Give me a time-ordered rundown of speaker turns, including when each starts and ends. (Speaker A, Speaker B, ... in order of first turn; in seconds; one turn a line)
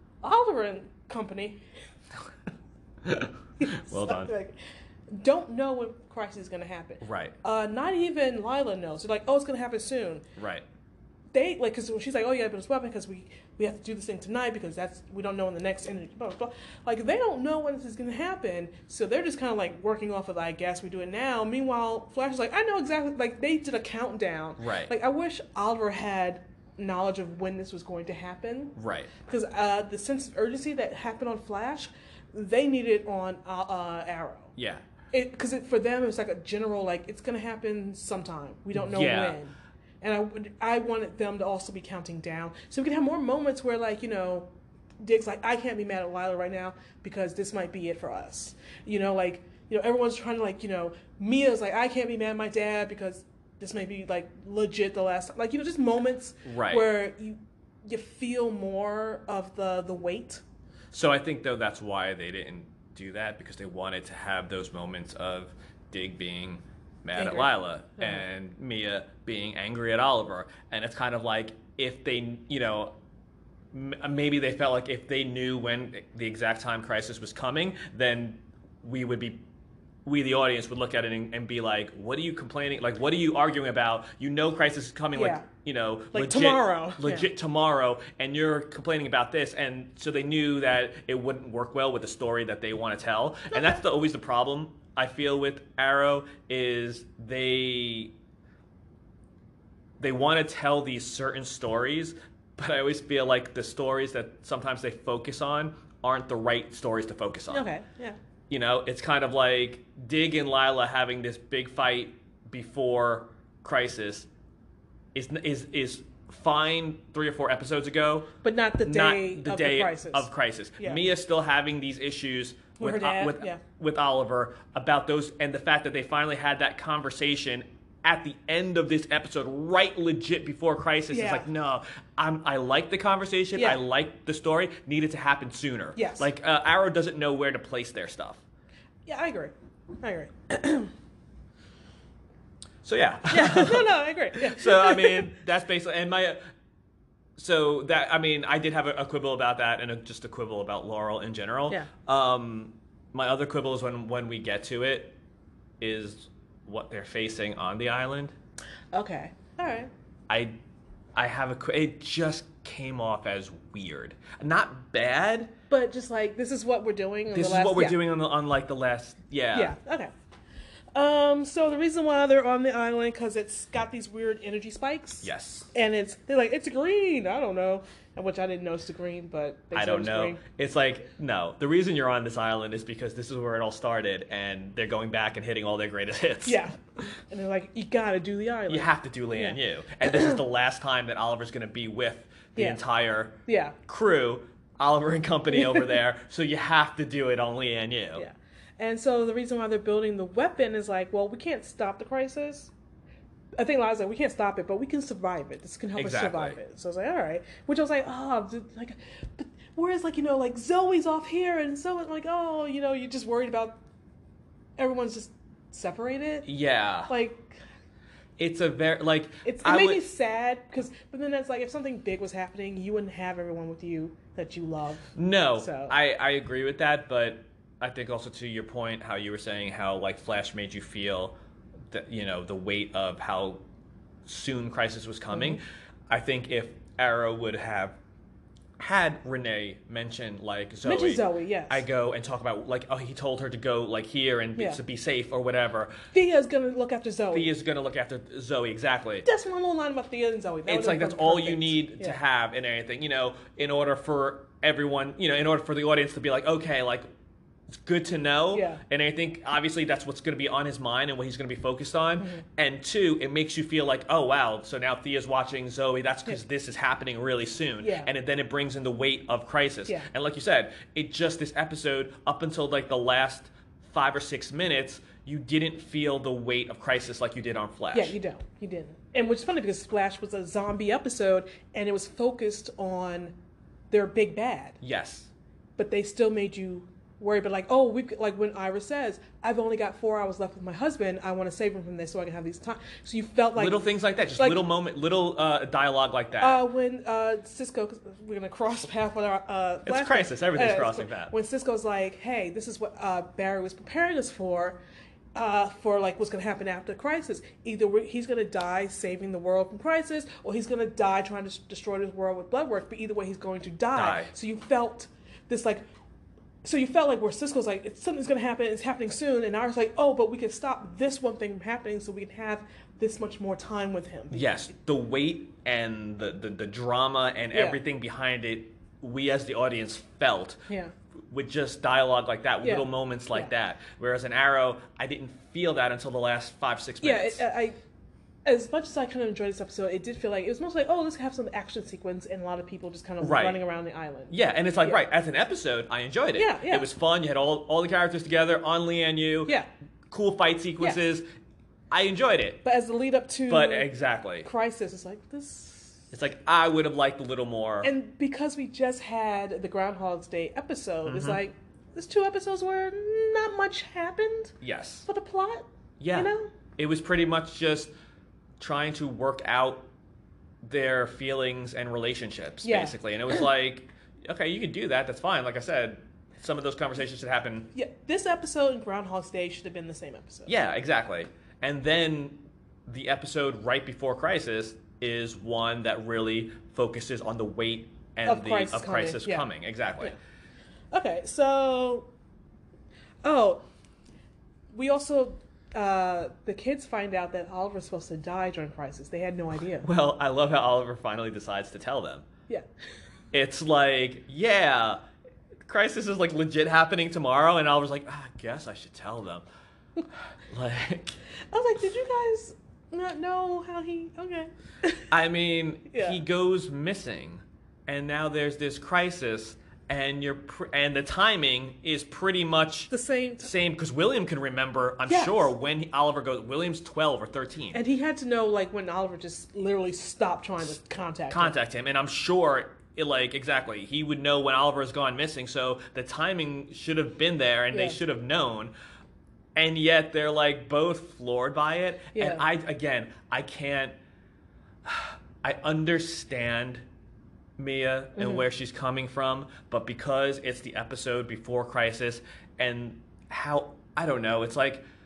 Speaker A: 0.2-1.6
Speaker B: 3.0-4.3
Speaker A: 3.6-4.6
Speaker A: 5.1-10.2
Speaker B: 7.0-7.3
Speaker B: 10.3-10.6
Speaker A: 11.3-34.5
Speaker B: 24.6-24.9
Speaker B: 28.8-29.1
Speaker B: 34.5-34.8
Speaker A: 35.1-44.5
Speaker B: 38.7-39.4
Speaker A: 45.0-60.4
Speaker B: 56.4-56.9
Speaker B: 60.9-72.9
Speaker A: 67.2-68.2
Speaker B: 73.7-79.4
Speaker B: 80.0-98.1
Speaker A: 85.1-85.5
Speaker A: 86.1-87.3
Speaker B: 100.0-107.7
Speaker A: 107.5-108.2
Speaker B: 108.5-114.3
Speaker B: 115.1-118.3
Speaker A: 118.4-121.0
Speaker B: 118.8-138.4
Speaker A: 122.8-123.6
Speaker A: 131.1-131.4
Speaker A: 133.5-133.8
Speaker A: 135.9-136.3
Speaker A: 139.1-140.9
Speaker B: 142.8-146.4
Speaker A: 143.3-145.3
Speaker B: 147.4-155.1
Speaker B: 155.8-158.3
Speaker A: 158.9-159.9
Speaker B: 160.3-160.5
Speaker B: 161.2-165.5
Speaker A: 165.7-168.0
Speaker B: 167.3-169.8
Speaker A: 169.5-170.1
Speaker A: 170.9-180.4
Speaker B: 175.2-175.7
Speaker B: 179.7-186.6
Speaker A: 186.4-190.4
Speaker B: 188.7-198.2
Speaker A: 193.4-193.8
Speaker A: 195.5-195.9
Speaker A: 198.2-202.7
Speaker A: 203.6-213.8
Speaker B: 205.9-206.6
Speaker A: 214.8-216.5
Speaker B: 216.4-217.1
Speaker A: 217.1-217.6
Speaker B: 218.4-220.0
Speaker A: 219.4-225.9
Speaker B: 225.2-231.3
Speaker B: 231.9-233.6
Speaker B: 234.2-237.9
Speaker A: 235.3-235.6
Speaker B: 238.8-245.9
Speaker A: 240.8-241.8
Speaker A: 246.1-247.5
Speaker B: 247.3-249.3
Speaker A: 249.2-252.2
Speaker B: 250.7-257.1
Speaker B: 257.7-278.1
Speaker A: 258.5-258.8
Speaker A: 262.2-262.4
Speaker A: 267.8-268.1
Speaker A: 277.9-283.3
Speaker A: 283.9-284.8
Speaker B: 284.8-285.3
Speaker A: 285.8-293.9
Speaker B: 293.6-296.6
Speaker A: 294.4-294.6
Speaker A: 296.4-304.8
Speaker B: 299.9-301.3
Speaker A: 305.3-315.8
Speaker B: 313.9-314.3
Speaker A: 316.6-324.5
Speaker B: 324.3-330.6
Speaker A: 327.5-327.8
Speaker B: 331.3-337.4
Speaker A: 332.6-333.5
Speaker A: 337.0-337.8
Speaker A: 338.4-345.0
Speaker B: 343.2-343.6
Speaker B: 344.3-349.5
Speaker A: 346.4-346.9
Speaker B: 350.1-351.2
Speaker B: 351.9-352.6
Speaker A: 352.6-353.9
Speaker B: 353.5-354.5
Speaker A: 354.4-356.0
Speaker B: 356.1-357.9
Speaker A: 357.8-364.5
Speaker B: 361.0-361.4
Speaker B: 364.6-365.1
Speaker A: 365.1-366.5
Speaker B: 366.0-367.9
Speaker B: 368.6-369.9
Speaker B: 370.6-377.7
Speaker A: 372.6-373.0
Speaker A: 377.7-380.5
Speaker B: 380.4-390.1
Speaker A: 388.2-389.5
Speaker A: 390.9-392.1
Speaker A: 393.2-393.6
Speaker A: 394.7-399.9
Speaker B: 399.8-402.2
Speaker B: 403.3-405.0
Speaker B: 405.6-409.4
Speaker B: 410.5-411.2
Speaker A: 411.5-415.1
Speaker B: 415.1-427.8
Speaker A: 415.9-416.2
Speaker A: 422.9-423.5
Speaker A: 425.1-425.5
Speaker A: 427.7-431.5
Speaker B: 431.3-438.7
Speaker A: 437.7-438.0
Speaker B: 439.5-443.9
Speaker A: 442.1-442.4
Speaker B: 444.8-446.8
Speaker B: 447.6-454.8
Speaker A: 448.2-448.4